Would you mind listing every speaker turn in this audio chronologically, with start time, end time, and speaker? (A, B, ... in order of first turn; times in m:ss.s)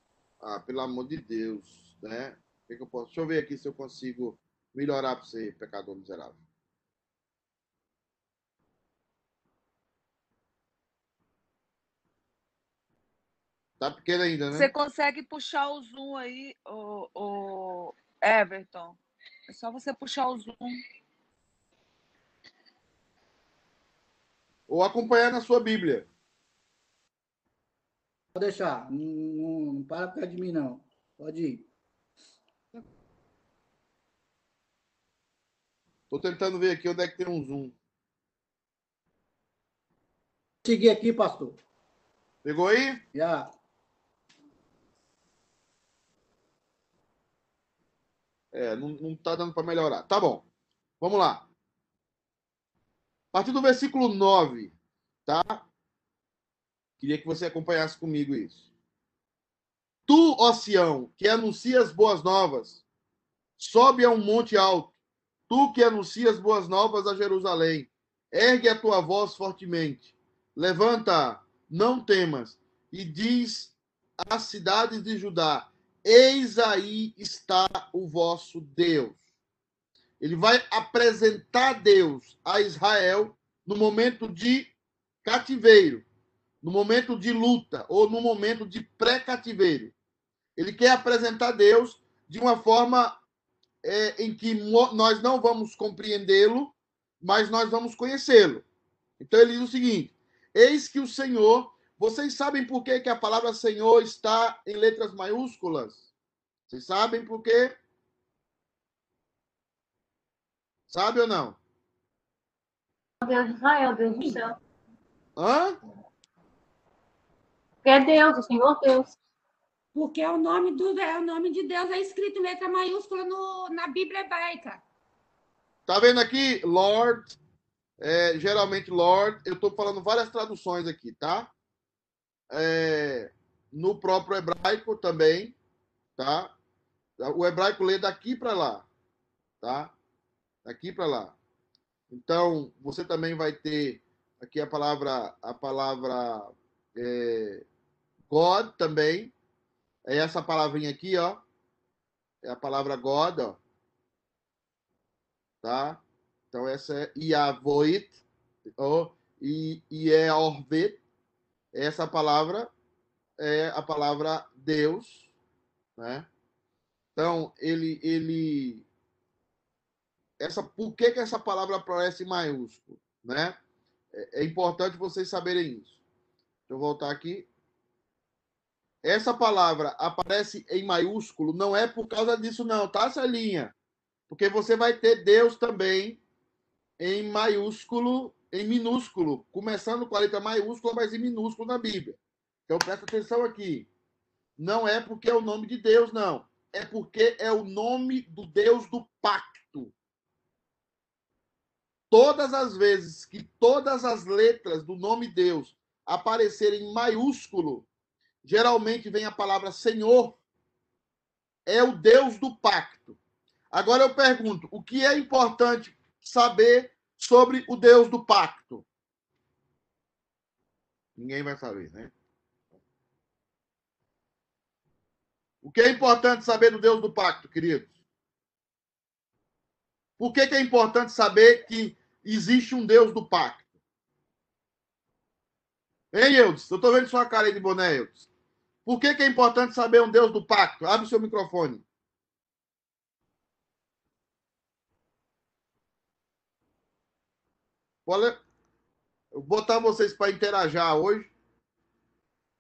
0:00.4-0:06.4 A
0:13.8-0:14.7 A
0:14.5-0:20.8 B
0:24.7-0:26.1 A
0:28.4-0:31.7 C
0:36.1-0:37.7 A
0:40.6-0:41.6 C
0:42.4-0:43.0 A
0:43.2-0:43.5 C
0:48.5-0:50.4 A
0:51.0-0:51.5 A
0:53.3-0:54.7 A
0:55.3-0:55.7 A
0:57.0-0:58.6 A
1:00.1-1:02.8 A
1:03.6-1:05.0 A
1:05.5-1:19.2 A
1:20.2-1:24.7 A
1:25.2-1:26.0 A
1:26.6-1:29.9 A
1:30.6-1:33.2 A
1:33.8-1:38.6 A
1:39.2-1:46.0 A
1:46.7-1:47.8 A
1:50.9-1:51.6 A
1:53.2-1:54.6 D
1:55.4-1:55.8 A
1:57.8-1:59.1 D
2:00.0-2:04.8 E
2:05.9-2:07.4 A
2:08.0-2:11.5 A
2:12.5-2:15.6 A
2:16.2-2:16.5 A
2:17.2-2:18.9 A
2:19.6-2:19.9 A
2:20.6-2:21.4 A
2:22.1-2:27.6 A
2:28.3-2:29.3 A
2:30.1-2:31.4 A
2:32.4-2:33.6 A
2:35.6-2:36.0 A
2:36.5-2:38.2 A
2:38.8-2:41.0 A
2:41.7-2:42.7 A
2:43.4-2:45.3 A
2:46.0-2:46.3 A
2:47.2-2:48.8 A
2:50.4-2:53.6 A
2:54.1-2:55.9 A
2:56.7-2:57.5 A
2:59.0-3:03.7 A
3:04.3-3:06.2 A
3:07.0-3:13.9 A
3:14.6-3:19.9 A
3:22.1-3:27.9 A
3:28.4-3:30.4 A
3:31.7-3:33.2 A
3:33.7-3:38.8 A
3:41.2-3:42.1 A
3:45.6-3:47.9 A
3:50.2-3:53.6 A
3:56.1-3:58.3 A
3:58.8-4:01.8 A
4:08.1-4:08.4 A
4:09.3-4:11.3 A